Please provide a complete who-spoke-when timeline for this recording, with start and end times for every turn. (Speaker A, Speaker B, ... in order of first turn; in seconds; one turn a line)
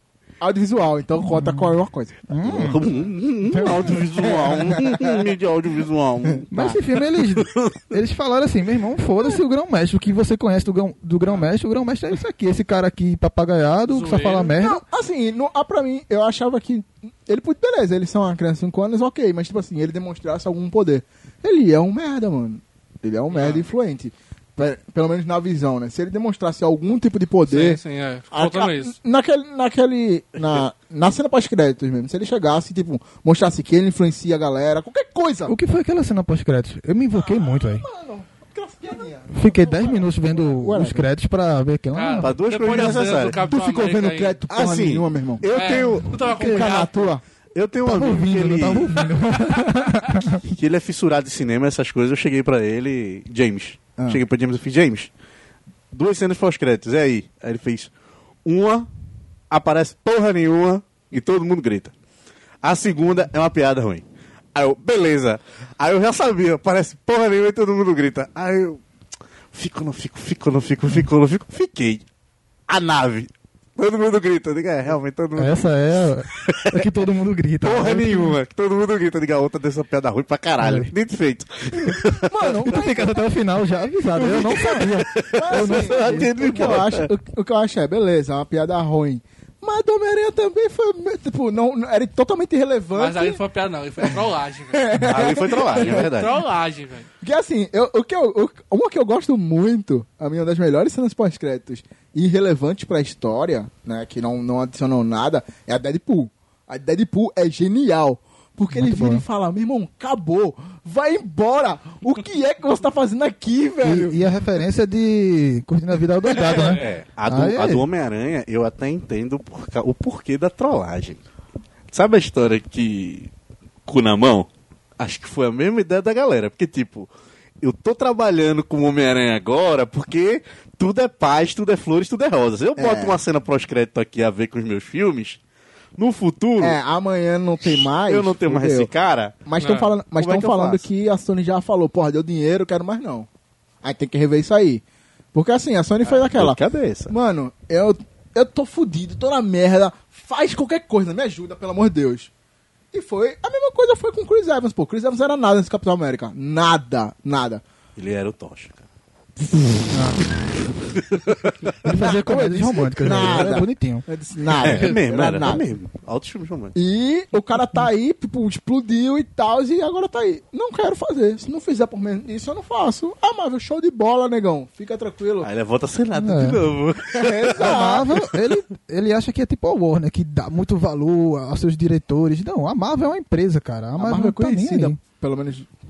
Speaker A: 0.4-2.8
Speaker B: 1.2-1.8
Speaker B: 2.3-2.9
Speaker C: 2.4-8.0
Speaker B: 3.5-4.0
Speaker A: 3.7-5.3
Speaker A: 6.2-6.8
Speaker B: 6.5-14.8
Speaker D: 13.9-14.6
Speaker A: 14.6-35.5
Speaker D: 23.3-23.6
Speaker D: 27.5-28.9
Speaker B: 35.5-37.9
Speaker A: 37.2-41.1
Speaker B: 39.3-42.4
Speaker D: 41.9-44.4
Speaker C: 42.2-43.4
Speaker A: 42.8-45.5
Speaker C: 44.5-46.9
Speaker D: 45.5-46.9
Speaker A: 46.3-47.2
Speaker C: 47.5-49.0
Speaker B: 47.9-50.4
Speaker C: 50.4-55.1
Speaker C: 55.9-57.9
Speaker C: 58.5-58.9
Speaker C: 59.5-61.9
Speaker C: 62.6-64.0
Speaker C: 64.5-68.8
Speaker C: 69.5-72.0
Speaker C: 72.7-76.8
Speaker B: 75.4-78.4
Speaker C: 77.6-82.7
Speaker B: 80.6-80.9
Speaker A: 82.3-83.3
Speaker B: 82.6-86.7
Speaker C: 84.1-87.1
Speaker A: 84.2-93.4
Speaker D: 93.0-94.8
Speaker A: 94.7-96.1
Speaker C: 95.0-96.4
Speaker D: 95.7-97.1
Speaker A: 97.2-114.2
Speaker B: 108.7-109.2
Speaker B: 113.8-117.9
Speaker D: 116.3-117.0
Speaker C: 116.6-121.2
Speaker C: 121.9-123.3
Speaker C: 123.9-124.5
Speaker C: 125.0-127.1
Speaker C: 127.6-135.4
Speaker A: 132.8-133.2
Speaker C: 136.0-136.8
Speaker A: 136.6-138.9
Speaker C: 137.7-139.3
Speaker A: 139.4-143.3
Speaker D: 139.6-139.9
Speaker C: 140.2-140.8
Speaker A: 143.8-144.8
Speaker A: 145.3-146.6
Speaker C: 146.1-147.1
Speaker A: 147.1-152.3
Speaker A: 152.9-157.6
Speaker C: 158.0-158.8
Speaker C: 159.5-160.0
Speaker B: 159.9-160.2
Speaker C: 160.9-161.5
Speaker B: 161.8-164.1
Speaker A: 162.0-165.7
Speaker C: 164.5-166.8
Speaker A: 166.8-175.5
Speaker C: 175.4-178.2
Speaker B: 176.2-176.7
Speaker A: 177.1-178.2
Speaker B: 177.6-185.0
Speaker A: 184.0-185.7